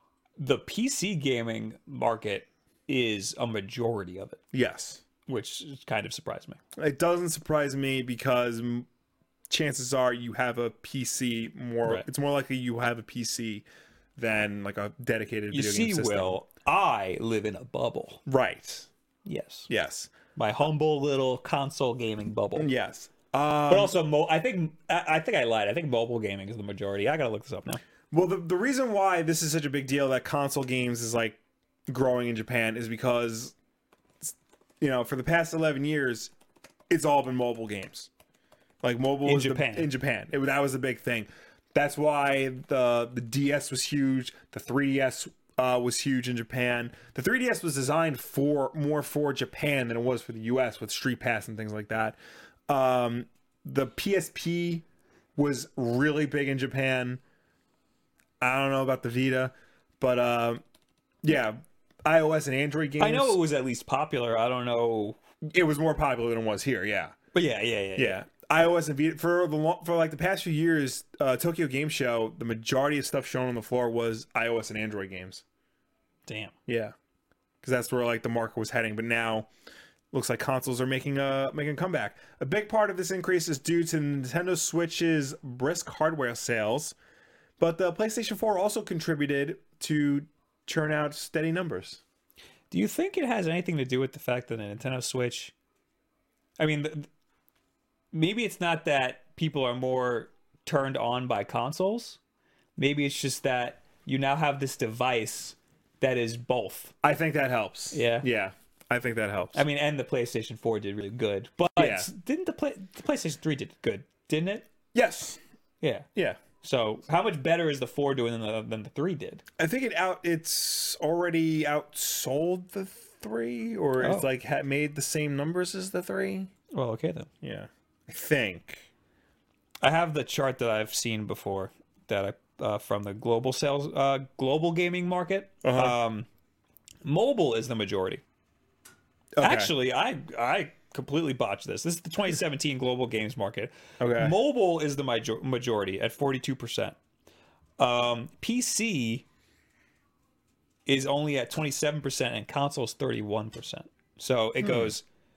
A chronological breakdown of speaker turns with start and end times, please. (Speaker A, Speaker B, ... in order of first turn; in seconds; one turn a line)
Speaker A: 0.4-4.4
Speaker B: 4.5-5.0
Speaker A: 5.2-6.6
Speaker B: 6.8-8.9
Speaker B: 9.5-13.6
Speaker B: 14.2-16.4
Speaker A: 15.5-18.2
Speaker B: 18.3-18.9
Speaker A: 19.2-19.7
Speaker B: 19.7-20.1
Speaker A: 20.3-22.7
Speaker B: 22.6-23.9
Speaker A: 23.7-27.8
Speaker B: 28.1-33.5
Speaker B: 34.2-36.3
Speaker B: 36.9-38.1
Speaker B: 38.8-52.2
Speaker A: 39.2-39.9
Speaker B: 52.7-54.8
Speaker B: 55.4-57.2
Speaker B: 58.4-60.6
Speaker B: 61.2-63.4
Speaker A: 63.0-65.2
Speaker B: 65.5-67.2
Speaker A: 67.3-68.2
Speaker B: 68.0-75.4
Speaker A: 76.3-76.5
Speaker B: 76.7-76.9
Speaker B: 77.6-79.5
Speaker B: 80.1-86.9
Speaker B: 87.6-92.0
Speaker A: 92.7-95.5
Speaker A: 96.6-97.1
Speaker A: 98.1-102.2
Speaker A: 102.8-106.9
Speaker B: 107.0-109.6
Speaker A: 107.9-108.3
Speaker A: 109.5-114.7
Speaker B: 111.8-112.1
Speaker B: 114.9-115.4
Speaker A: 115.8-116.1
Speaker B: 116.1-116.4
Speaker A: 116.6-119.4
Speaker B: 119.6-126.5
Speaker A: 124.0-124.3
Speaker A: 126.7-127.3
Speaker B: 127.4-128.9
Speaker A: 129.8-136.3
Speaker B: 135.6-135.9
Speaker A: 137.0-138.2
Speaker B: 139.4-139.7
Speaker A: 139.4-146.9
Speaker B: 144.0-144.3
Speaker A: 147.8-149.2
Speaker A: 150.8-155.0
Speaker B: 154.6-154.9